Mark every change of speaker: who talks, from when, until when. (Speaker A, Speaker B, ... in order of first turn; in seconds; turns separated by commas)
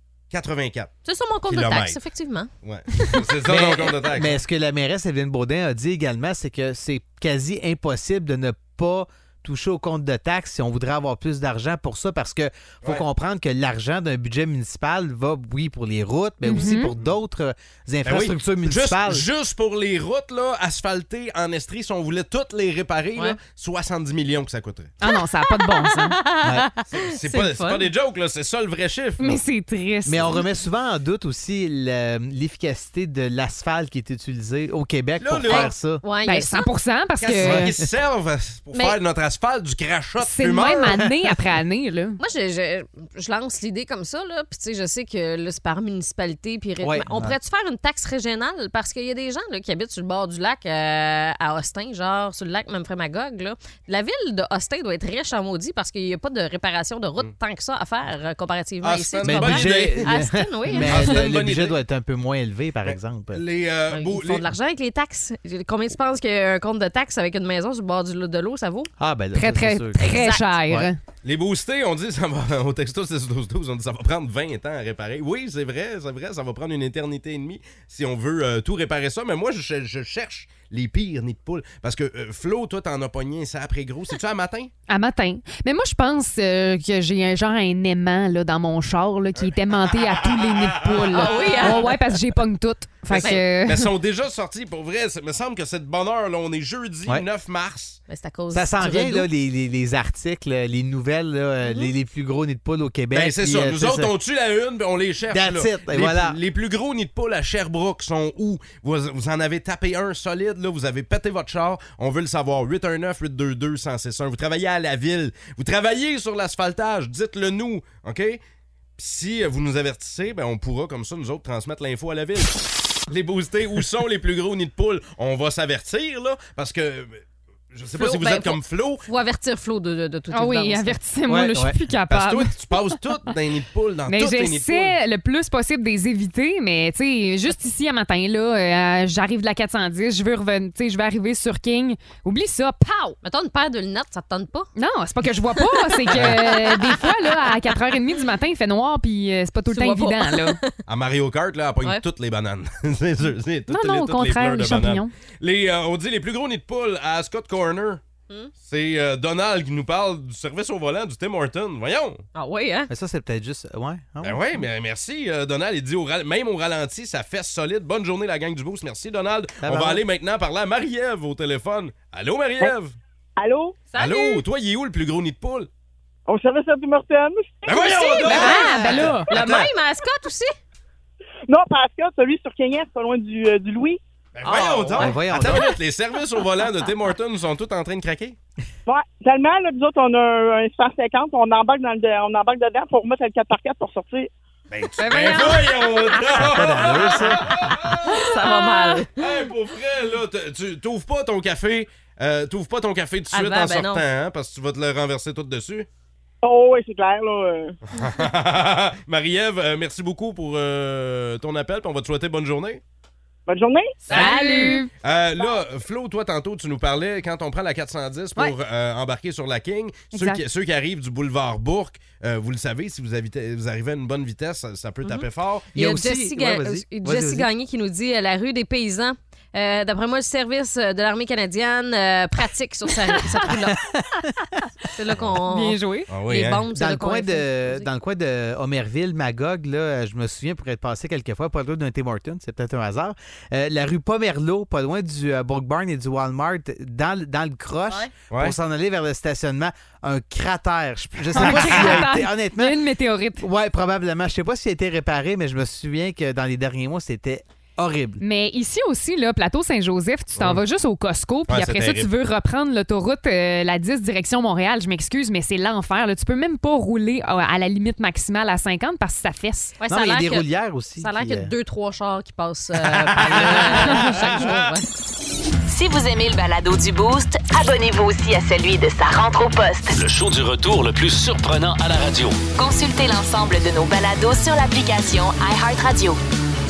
Speaker A: 0.3-0.9, Speaker B: 1.1-3.2, Speaker A: 1.5-2.0, Speaker A: 2.6-4.4, Speaker C: 3.4-19.2, Speaker D: 16.4-16.9, Speaker A: 18.1-24.9, Speaker D: 25.0-26.2, Speaker B: 25.1-27.9, Speaker C: 26.4-26.7, Speaker A: 26.9-29.4, Speaker D: 29.2-30.5, Speaker C: 30.1-36.0, Speaker A: 35.2-35.7, Speaker B: 35.5-36.7, Speaker D: 36.2-37.7, Speaker A: 37.2-41.0, Speaker D: 40.2-42.2, Speaker B: 42.2-61.2, Speaker C: 46.8-47.4, Speaker A: 58.8-60.1, Speaker C: 59.2-63.4, Speaker A: 60.7-61.8, Speaker A: 62.9-64.5, Speaker B: 63.9-68.9, Speaker C: 69.0-70.0, Speaker D: 69.3-71.0, Speaker B: 70.0-70.5, Speaker A: 71.2-84.7, Speaker D: 84.9-93.9, Speaker A: 89.9-92.0, Speaker B: 91.1-91.9, Speaker A: 93.1-98.0, Speaker B: 93.1-93.4, Speaker B: 98.1-99.3, Speaker C: 98.5-104.1, Speaker B: 101.6-101.9, Speaker A: 103.1-118.4, Speaker C: 105.3-106.4, Speaker A: 119.0-129.1, Speaker B: 128.0-131.0, Speaker D: 130.3-132.8, Speaker C: 131.3-131.8, Speaker A: 132.1-135.0, Speaker D: 134.1-143.2, Speaker B: 143.2-144.7, Speaker D: 144.8-150.6, Speaker B: 145.6-147.5, Speaker A: 146.1-146.4, Speaker B: 149.7-150.8, Speaker A: 150.9-158.0, Speaker D: 153.7-155.1, Speaker A: 158.6-162.2, Speaker B: 162.3-162.9, Speaker C: 162.9-164.4, Speaker A: 164.2-173.0, Speaker C: 169.6-170.0, Speaker E: 173.4-173.8, Speaker B: 173.9-174.4, Speaker A: 173.9-175.7, Speaker E: 176.3-177.9, Speaker A: 177.7-179.7, Speaker B: 177.7-180.6, Speaker D: 178.2-179.3, Speaker C: 178.5-178.9, Speaker E: 181.5-184.0, Speaker A: 184.4-188.4, Speaker B: 184.4-185.5, Speaker C: 185.0-185.7, Speaker E: 188.9-194.3, Speaker A: 194.7-198.3, Speaker D: 195.0-195.8, Speaker C: 196.3-197.5, Speaker B: 198.1-199.2, Speaker A: 199.1-205.9, Speaker B: 203.3-204.0, Speaker E: 206.4-207.8, Speaker A: 207.9-212.8, Speaker E: 213.5-214.0, Speaker B: 214.1-214.8, Speaker D: 214.1-214.9, Speaker A: 214.1-225.7, Speaker D: 220.1-220.4, Speaker B: 225.0-233.8, Speaker C: 225.7-227.5, Speaker C: 233.7-234.3, Speaker B: 234.9-237.9, Speaker D: 235.5-236.1, Speaker A: 236.1-236.6, Speaker C: 236.7-252.8, Speaker A: 248.3-248.6, Speaker D: 251.3-253.5, Speaker C: 253.4-258.2, Speaker D: 258.2-269.8, Speaker A: 260.4-260.6, Speaker A: 261.5-262.1, Speaker B: 269.8-274.9, Speaker C: 269.9-271.5, Speaker C: 273.3-274.5, Speaker F: 275.7-279.9, Speaker G: 279.9-282.4, Speaker F: 282.6-286.2